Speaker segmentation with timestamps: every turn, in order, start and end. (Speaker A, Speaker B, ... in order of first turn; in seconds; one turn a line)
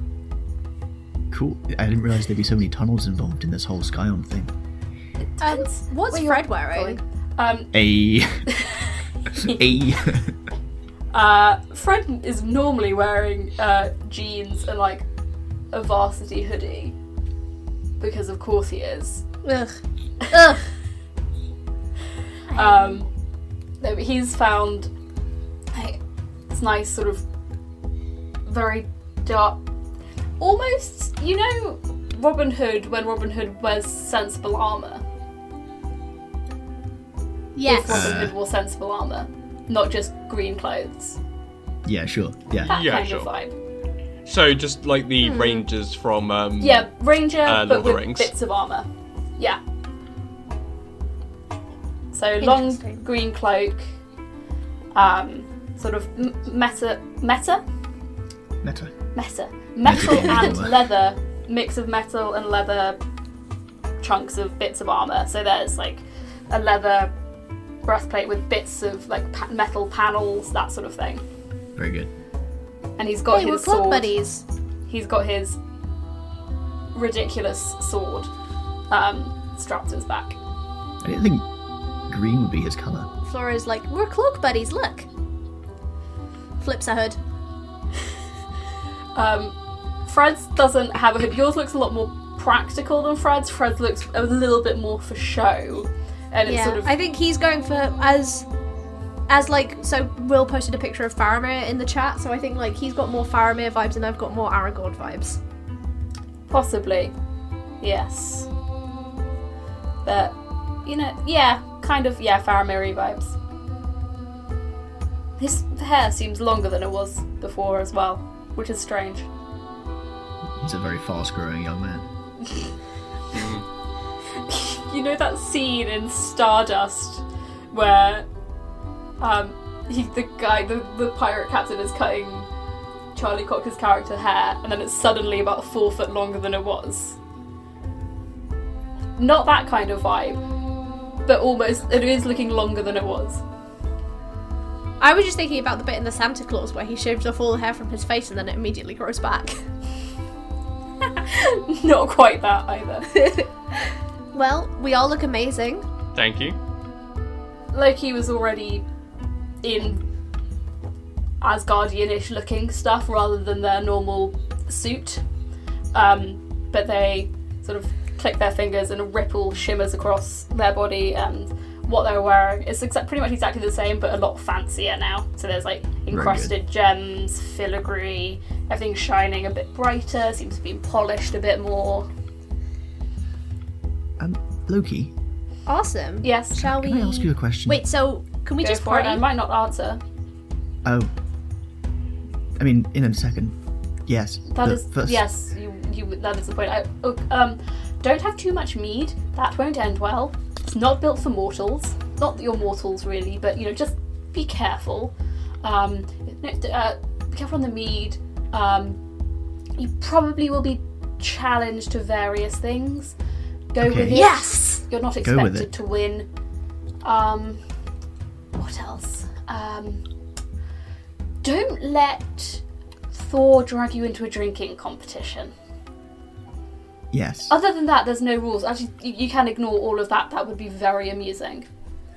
Speaker A: 1.3-4.5
Speaker B: 5.2-7.7
Speaker C: 5.4-7.0
Speaker A: 7.7-8.5
Speaker B: 8.5-9.7
Speaker A: 9.4-10.3
Speaker B: 11.1-15.1
Speaker B: 15.7-16.9
Speaker B: 18.0-19.2
Speaker C: 19.4-19.8
Speaker C: 20.3-20.6
Speaker C: 22.5-23.0
Speaker B: 22.5-23.1
Speaker B: 23.8-24.9
Speaker B: 25.7-26.0
Speaker B: 26.5-27.2
Speaker B: 28.4-29.6
Speaker B: 30.4-35.0
Speaker C: 37.5-38.2
Speaker B: 37.6-41.2
Speaker A: 37.9-38.3
Speaker A: 41.8-42.8
Speaker D: 42.6-43.3
Speaker B: 42.7-43.5
Speaker D: 44.2-46.9
Speaker C: 45.2-45.6
Speaker B: 46.6-48.9
Speaker D: 47.4-48.3
Speaker B: 52.1-53.9
Speaker C: 52.4-53.0
Speaker B: 54.9-57.6
Speaker A: 58.6-58.9
Speaker B: 59.1-63.0
Speaker A: 59.8-60.8
Speaker B: 64.0-67.1
Speaker B: 67.8-71.2
Speaker A: 71.7-72.1
Speaker B: 73.0-74.2
Speaker C: 73.3-74.4
Speaker B: 74.9-75.6
Speaker B: 76.9-78.3
Speaker B: 78.9-80.4
Speaker A: 81.0-81.5
Speaker A: 82.1-83.1
Speaker C: 83.2-85.1
Speaker C: 86.6-87.2
Speaker B: 89.2-89.5
Speaker B: 90.0-96.9
Speaker C: 96.5-98.5
Speaker C: 99.3-105.4
Speaker B: 106.5-107.1
Speaker B: 107.8-108.5
Speaker B: 110.0-113.3
Speaker B: 115.4-119.3
Speaker A: 120.6-122.1
Speaker D: 123.3-123.6
Speaker B: 124.3-128.3
Speaker B: 129.2-132.5
Speaker B: 133.1-137.2
Speaker B: 139.2-140.4
Speaker B: 141.2-143.4
Speaker C: 145.0-149.6
Speaker B: 151.1-153.2
Speaker C: 153.2-153.4
Speaker C: 154.3-155.8
Speaker D: 156.1-156.6
Speaker B: 157.7-158.8
Speaker B: 159.6-160.0
Speaker B: 161.4-165.2
Speaker B: 165.9-182.1
Speaker A: 176.1-176.5
Speaker A: 184.2-185.1
Speaker C: 185.7-189.2
Speaker B: 186.2-186.6
Speaker A: 186.6-187.8
Speaker B: 188.6-190.0
Speaker A: 190.8-191.1
Speaker A: 192.6-193.5
Speaker A: 194.1-195.2
Speaker B: 194.5-209.0
Speaker B: 209.8-213.1
Speaker B: 213.7-216.3
Speaker A: 213.8-214.2
Speaker C: 214.1-214.8
Speaker A: 215.2-215.7
Speaker B: 217.0-217.6
Speaker B: 218.5-220.0
Speaker B: 221.4-225.5
Speaker A: 227.1-227.5
Speaker B: 227.5-231.7